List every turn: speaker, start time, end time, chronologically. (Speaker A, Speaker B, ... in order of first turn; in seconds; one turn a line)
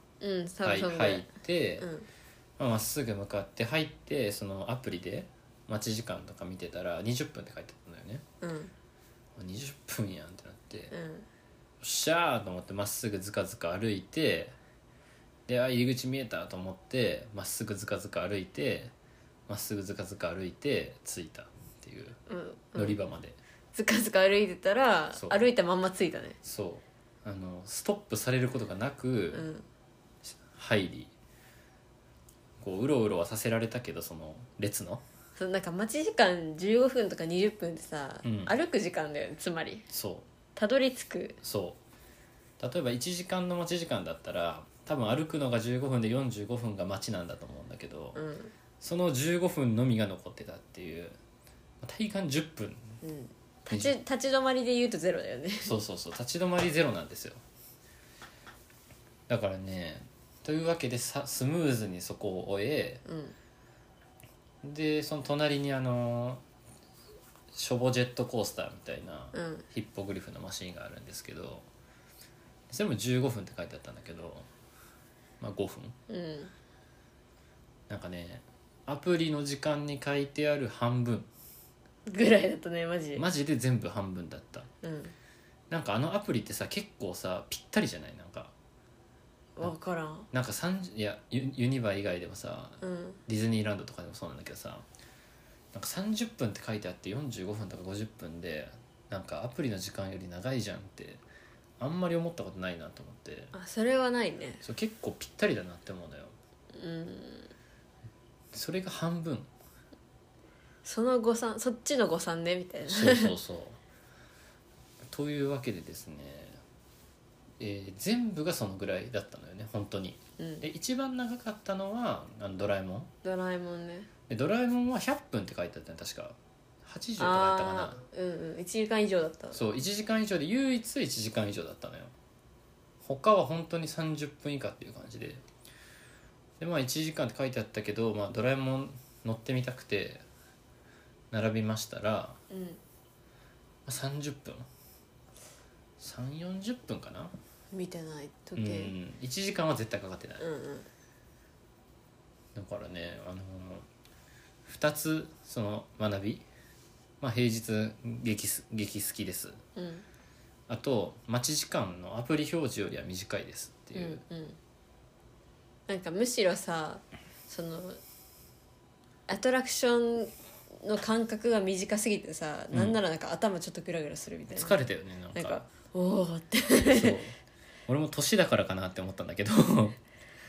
Speaker A: 0.2-2.1
Speaker B: 0.6-1.9
Speaker B: 2.6-8.2
Speaker A: 8.4-8.7
Speaker B: 9.4-10.9
Speaker A: 10.9-11.3
Speaker B: 11.8-14.5
Speaker B: 15.5-18.9
Speaker B: 19.5-22.2
Speaker A: 22.3-23.0
Speaker B: 22.8-23.4
Speaker A: 23.7-26.4
Speaker B: 25.1-25.4
Speaker B: 26.4-29.5
Speaker A: 29.3-29.6
Speaker B: 30.2-31.1
Speaker B: 32.6-35.0
Speaker A: 35.4-39.9
Speaker B: 38.2-38.5
Speaker B: 39.9-40.3
Speaker A: 40.6-41.4
Speaker B: 41.4-41.8
Speaker B: 42.6-48.2
Speaker A: 48.1-48.5
Speaker B: 48.8-51.2
Speaker B: 51.8-53.0
Speaker A: 53.0-55.7
Speaker B: 53.7-54.0
Speaker B: 55.6-57.4
Speaker B: 59.3-63.0
Speaker A: 63.1-63.4
Speaker B: 64.6-66.4
Speaker B: 67.5-71.7
Speaker A: 69.3-69.7
Speaker B: 72.7-74.5
Speaker B: 75.4-76.0
Speaker A: 76.1-76.5
Speaker B: 77.9-81.3
Speaker A: 82.1-83.2
Speaker B: 83.2-84.7
Speaker A: 84.8-85.1
Speaker B: 85.7-88.5
Speaker A: 89.6-90.3
Speaker B: 90.3-94.9
Speaker A: 92.8-93.2
Speaker B: 95.7-101.2
Speaker B: 101.8-103.5
Speaker A: 103.5-104.6
Speaker B: 104.6-106.3
Speaker A: 106.7-107.5
Speaker B: 108.5-109.5
Speaker A: 110.8-113.3
Speaker B: 112.9-113.8
Speaker B: 115.1-116.6
Speaker B: 117.6-123.1
Speaker A: 120.4-120.6
Speaker A: 123.2-124.1
Speaker B: 124.3-128.0
Speaker A: 127.2-129.6
Speaker B: 129.5-132.1
Speaker B: 133.0-135.4
Speaker B: 136.6-140.2
Speaker B: 141.3-142.4
Speaker A: 142.5-142.8
Speaker B: 143.9-144.7
Speaker B: 146.0-147.3
Speaker A: 147.7-148.9
Speaker B: 148.6-150.4
Speaker A: 150.4-150.9
Speaker B: 152.6-153.9
Speaker B: 154.7-156.4
Speaker B: 157.2-159.6
Speaker A: 159.8-160.1
Speaker B: 160.7-164.2
Speaker A: 163.9-164.6
Speaker A: 165.9-168.0
Speaker A: 169.3-174.8
Speaker B: 172.7-173.0
Speaker B: 174.5-175.6
Speaker A: 175.3-177.2
Speaker B: 176.8-177.3
Speaker B: 177.9-180.0